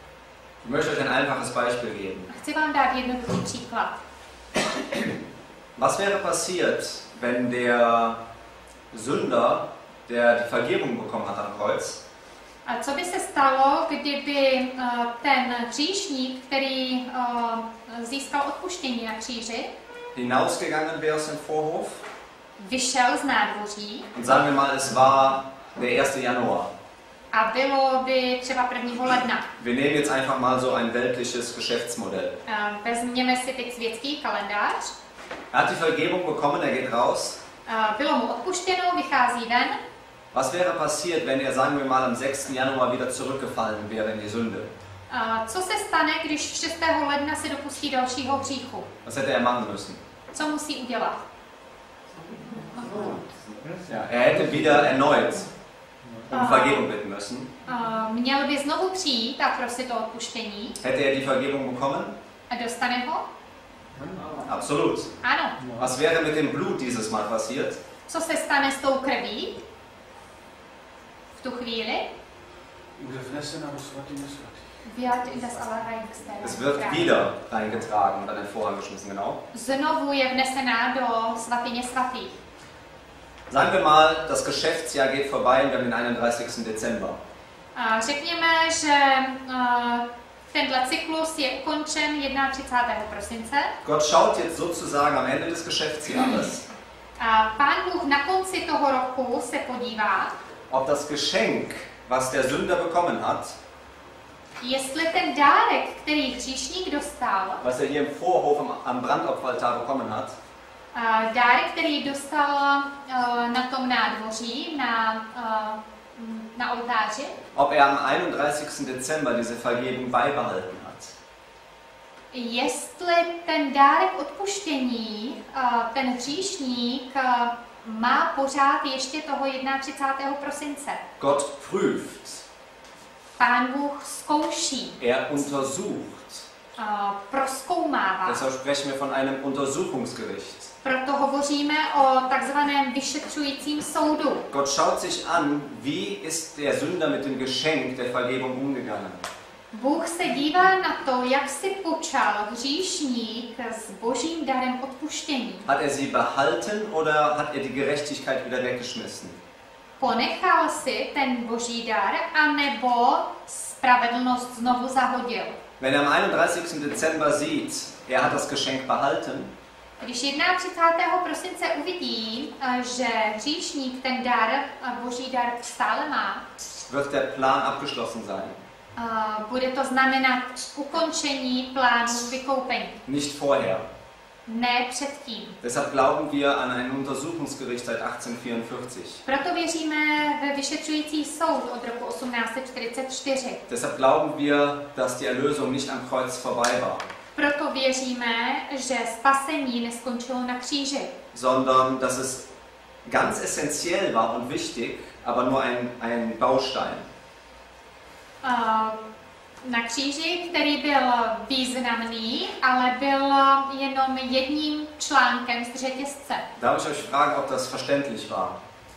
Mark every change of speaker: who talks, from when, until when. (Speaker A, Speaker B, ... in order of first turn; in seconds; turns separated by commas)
Speaker A: 0.6-2.3, Speaker B: 2.3-4.0, Speaker A: 5.8-8.2, Speaker A: 8.9-12.0, Speaker B: 12.7-19.7, Speaker A: 20.1-22.0, Speaker B: 22.6-24.1, Speaker A: 24.1-26.7, Speaker B: 27.3-29.5, Speaker A: 29.6-32.4, Speaker B: 32.5-34.9, Speaker A: 35.5-37.4, Speaker B: 37.6-39.8, Speaker A: 40.3-44.7, Speaker B: 45.1-48.9, Speaker A: 49.0-50.0, Speaker B: 50.3-51.2, Speaker C: 53.0-53.8, Speaker A: 53.9-55.5, Speaker A: 56.3-57.5, Speaker B: 56.3-56.8, Speaker B: 57.7-60.8, Speaker A: 60.8-62.1, Speaker B: 62.5-63.2, Speaker C: 64.0-64.3, Speaker A: 64.4-65.1, Speaker B: 65.2-65.6, Speaker C: 65.6-65.9, Speaker A: 65.8-67.8, Speaker B: 68.1-69.6, Speaker B: 71.4-72.0, Speaker C: 73.0-74.8, Speaker B: 74.8-77.1, Speaker A: 76.4-79.4, Speaker B: 79.5-82.3, Speaker A: 83.5-87.2, Speaker B: 87.8-93.7, Speaker A: 93.8-96.6, Speaker B: 97.2-100.3, Speaker A: 100.7-103.5, Speaker B: 104.6-107.6, Speaker A: 107.6-110.3, Speaker B: 110.9-117.4, Speaker A: 117.5-121.1, Speaker B: 122.3-131.0, Speaker A: 131.2-132.4, Speaker B: 133.4-135.0, Speaker A: 135.0-136.4, Speaker B: 136.8-138.4, Speaker A: 138.2-140.7, Speaker B: 140.8-144.4, Speaker A: 144.5-149.2, Speaker B: 149.7-155.7, Speaker A: 155.7-159.4, Speaker B: 160.0-165.6, Speaker A: 165.8-169.5, Speaker B: 170.0-176.4, Speaker A: 176.9-178.6, Speaker B: 179.0-183.0, Speaker A: 183.1-183.8, Speaker B: 184.5-185.6, Speaker A: 185.6-189.2, Speaker B: 189.2-193.6, Speaker A: 193.7-197.0, Speaker B: 197.3-201.1, Speaker A: 201.3-202.5, Speaker A: 203.0-207.1, Speaker B: 208.4-209.0, Speaker B: 209.6-216.4, Speaker A: 216.6-218.6